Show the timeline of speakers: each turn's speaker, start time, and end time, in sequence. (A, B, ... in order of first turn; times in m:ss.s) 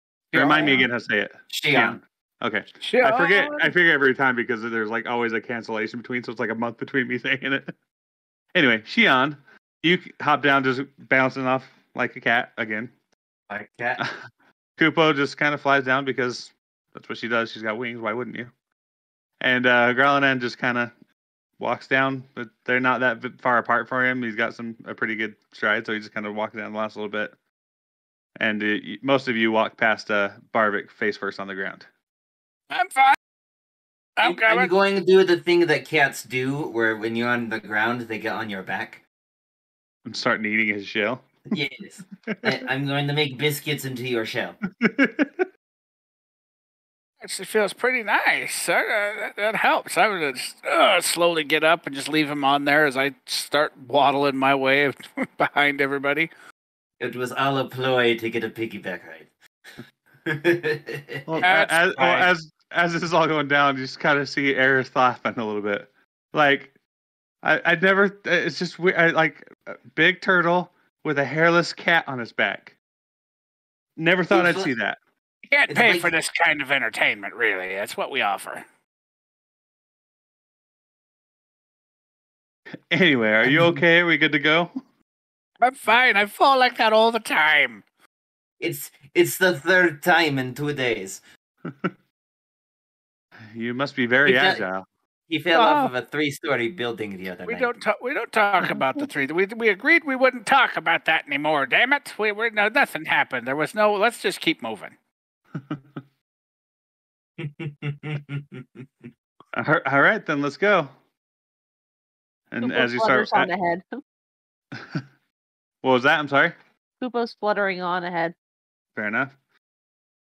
0:00.3-0:07.7 A
0:00.3-0:00.9 B
0:00.4-0:00.8 C
0:01.5-0:02.0 B
0:02.8-0:03.7 C
0:08.5-0:12.9 A
0:13.5-0:14.0 B
0:14.8-0:18.5 A
0:19.4-0:20.9 A
0:21.6-0:27.3 A
0:28.4-0:31.9 A
0:32.7-0:33.2 C
0:34.2-0:34.7 C
0:34.2-0:39.0 B
0:40.0-0:41.3 A
0:41.5-0:44.6 B
0:42.3-0:42.6 A
0:44.7-0:45.5 A
0:47.2-0:56.3 C
0:57.0-0:59.3 B
1:00.3-1:01.4 B
1:01.3-1:06.7 A
1:01.4-1:02.3 C
1:07.4-1:12.7 A
1:14.0-1:15.0 A
1:14.3-1:14.7 B
1:15.5-1:18.6 C
1:15.7-1:16.1 B
1:22.9-1:24.7 A
1:23.4-1:23.8 B
1:25.6-1:27.8 C
1:28.6-1:31.2 B
1:31.6-1:31.9 A
1:33.5-1:34.8 A
1:34.2-1:34.6 B
1:35.3-1:37.7 B
1:35.5-1:35.9 C
1:37.4-1:44.9 C
1:47.4-1:48.9 B
1:49.6-1:50.9 A
1:52.5-1:53.5 A
1:52.6-1:54.0 D
1:54.7-1:55.0 A
1:55.8-1:56.6 A
1:57.0-1:58.3 D
1:59.0-1:59.3 A